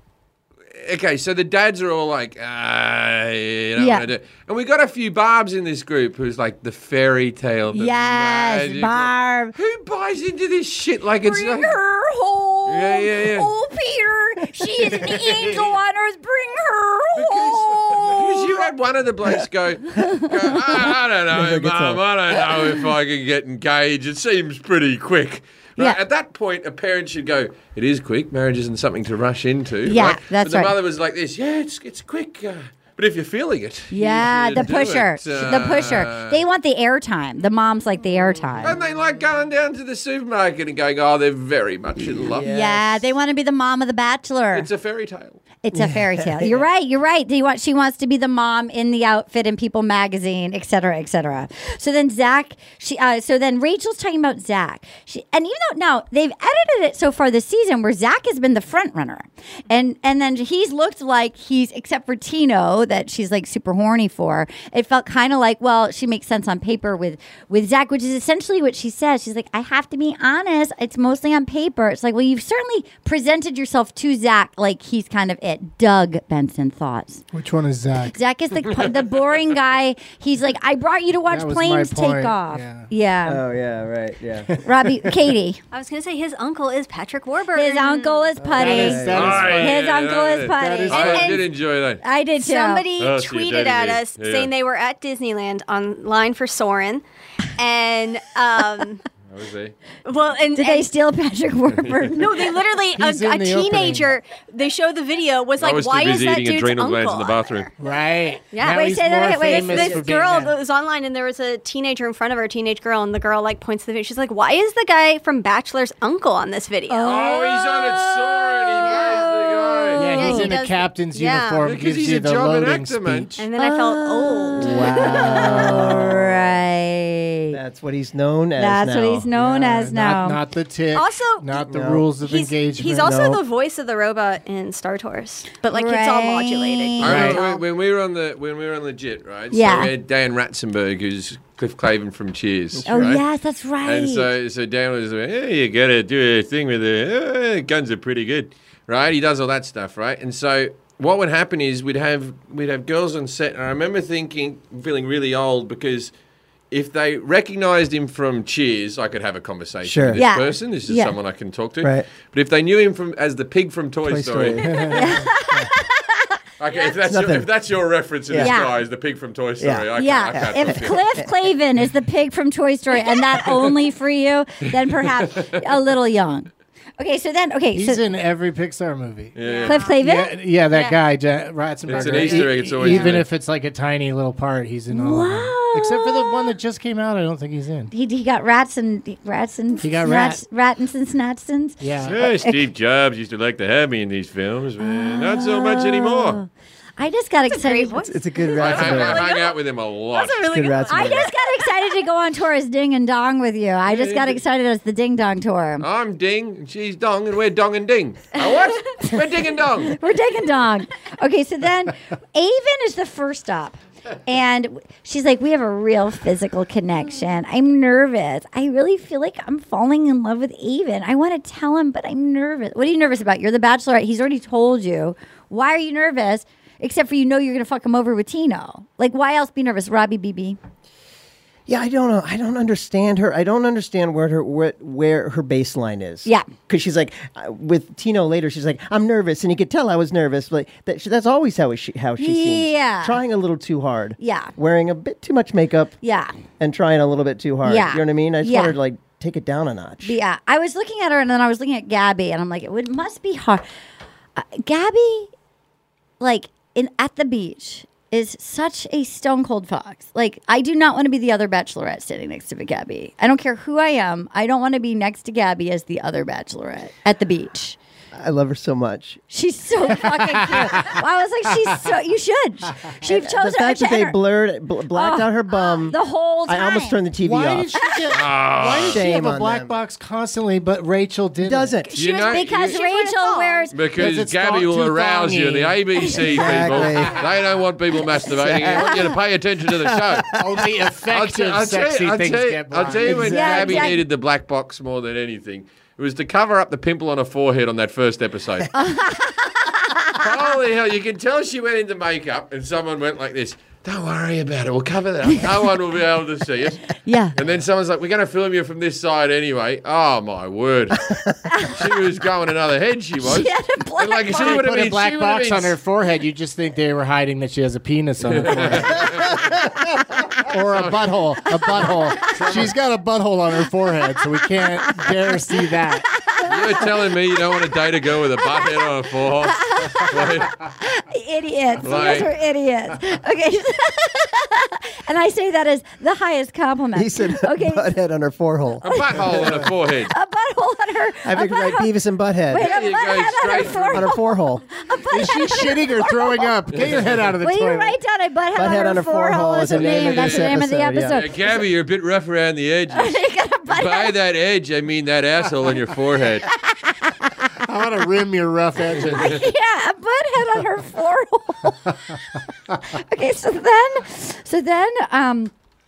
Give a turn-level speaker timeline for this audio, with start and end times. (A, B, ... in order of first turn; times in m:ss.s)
0:00.8-0:11.8 A
0:03.8-0:04.0 B
0:07.7-0:09.5 B
0:11.2-0:18.6 B
0:12.7-0:13.5 A
0:17.1-0:36.4 A
0:20.0-0:22.9 C
0:29.8-0:30.7 B
0:33.9-0:38.8 B
0:38.6-0:42.4 A
0:42.0-0:43.1 C
0:42.4-0:44.7 B
0:44.5-0:45.4 A
0:45.6-1:17.2 B
0:45.7-0:46.6 C
1:17.3-1:18.2 D
1:18.1-1:23.4 B
1:21.3-1:22.9 D
1:23.2-1:24.5 C
1:24.6-1:25.6 B
1:25.7-1:28.3 E
1:27.5-1:31.4 B
1:28.4-1:29.5 C
1:28.4-1:29.8 D
1:29.1-1:32.0 A
1:30.5-1:31.4 D
1:31.1-1:31.4 E
1:32.0-1:32.8 B
1:32.4-1:37.0 E
1:33.0-1:34.5 A
1:37.6-1:39.0 E
1:39.3-1:39.7 A
1:40.0-1:40.9 E
1:40.5-1:42.4 B
1:42.1-1:47.7 E
1:42.9-1:44.1 D
1:45.6-1:47.7 A
1:47.8-1:50.6 D
1:48.5-2:01.7 E
1:48.7-1:50.0 B
1:56.9-1:57.7 B
1:57.0-2:00.3 A
1:58.8-1:59.2 B
2:00.0-2:03.4 D
2:00.2-2:00.5 B
2:01.6-2:03.3 A
2:03.4-2:06.0 E
2:03.6-2:07.6 B
2:04.6-2:06.6 C
2:07.5-2:09.3 C
2:08.6-2:10.4 B
2:09.3-2:13.1 D
2:10.9-2:11.6 E
2:11.7-2:12.1 C
2:12.2-2:17.6 E
2:13.0-2:13.4 C
2:15.7-2:17.2 B
2:17.0-2:23.2 A
2:17.0-2:17.4 D
2:19.5-2:19.9 B
2:22.7-2:23.2 C
2:22.9-2:24.3 B
2:23.8-2:36.1 A
2:36.7-2:44.8 A
2:39.8-2:40.2 C
2:40.2-2:41.1 B
2:41.8-2:42.0 C
2:44.0-2:44.9 C
2:44.6-2:45.7 D
2:44.9-2:46.3 B
2:46.6-2:51.0 A
2:47.0-2:47.5 C
2:48.3-2:48.6 C
2:48.4-2:48.7 B
2:49.6-2:51.2 C
2:50.0-2:58.0 B
2:54.7-2:55.8 A
2:57.7-2:59.3 D
2:59.3-2:59.8 A
2:59.4-3:00.0 E
2:59.6-3:00.3 B
2:59.9-3:07.9 D
3:00.7-3:01.0 E
3:01.8-3:03.3 A
3:04.9-3:06.5 B
3:07.9-3:12.6 B
3:09.8-3:10.4 D
3:11.8-3:12.2 D
3:12.0-3:16.4 A
3:14.8-3:16.5 B
3:17.0-3:18.0 B
3:17.5-3:21.3 E
3:18.0-3:19.3 C
3:18.6-3:20.4 A
3:20.5-3:21.3 C
3:20.9-3:25.8 B
3:23.9-3:24.4 A
3:25.8-3:30.0 A
3:29.8-3:50.6 B
3:51.7-4:06.0 C
4:02.2-4:03.2 B
4:04.2-4:04.5 B
4:06.0-4:06.3 B
4:06.6-4:10.2 C
4:07.6-4:08.7 B
4:10.0-4:13.6 B
4:14.4-4:15.3 B
4:16.2-4:27.8 B
4:28.1-4:29.2 C
4:29.3-4:34.2 B
4:30.0-4:31.0 D
4:33.0-4:37.7 C
4:34.9-4:37.0 B
4:37.2-4:41.8 D
4:38.1-4:39.0 A
4:38.6-4:39.7 C
4:41.4-4:41.9 C
4:41.8-4:43.8 E
4:42.0-4:42.8 A
4:42.0-4:43.7 B
4:43.7-4:50.4 A
4:44.0-4:45.8 D
4:46.2-4:47.3 C
4:48.1-4:49.1 C
4:49.7-4:50.6 C
4:50.3-4:53.4 D
4:51.1-4:58.7 A
4:53.0-4:53.9 C
4:53.2-4:54.0 B
4:58.7-5:00.2 B
5:00.1-5:11.1 A
5:07.0-5:07.3 B
5:11.5-5:11.8 B
5:11.7-5:15.8 A
5:13.2-5:14.6 B
5:14.4-5:19.6 D
5:18.2-5:19.5 A
5:18.5-5:19.2 C
5:20.4-5:26.0 D
5:20.7-5:21.1 A
5:21.7-5:22.7 A
5:24.8-5:25.3 B
5:26.1-5:26.8 B
5:26.4-5:30.6 A
5:28.4-5:28.8 B
5:29.5-5:37.9 B
5:31.8-5:32.3 A
5:36.9-5:39.3 C
5:38.8-5:40.1 A
5:40.1-5:41.9 B
5:41.2-5:42.7 C
5:42.5-5:46.5 B
5:42.5-5:44.1 A
5:43.9-5:44.6 C
5:45.1-5:48.0 D
5:46.7-5:47.1 A
5:47.4-5:51.6 B
5:48.5-5:51.2 C
5:49.6-5:56.5 A
5:52.9-5:54.1 B
5:56.5-5:57.4 B
5:57.6-5:59.4 D
5:59.0-5:59.3 A
5:59.1-6:01.9 B
6:02.9-6:05.5 B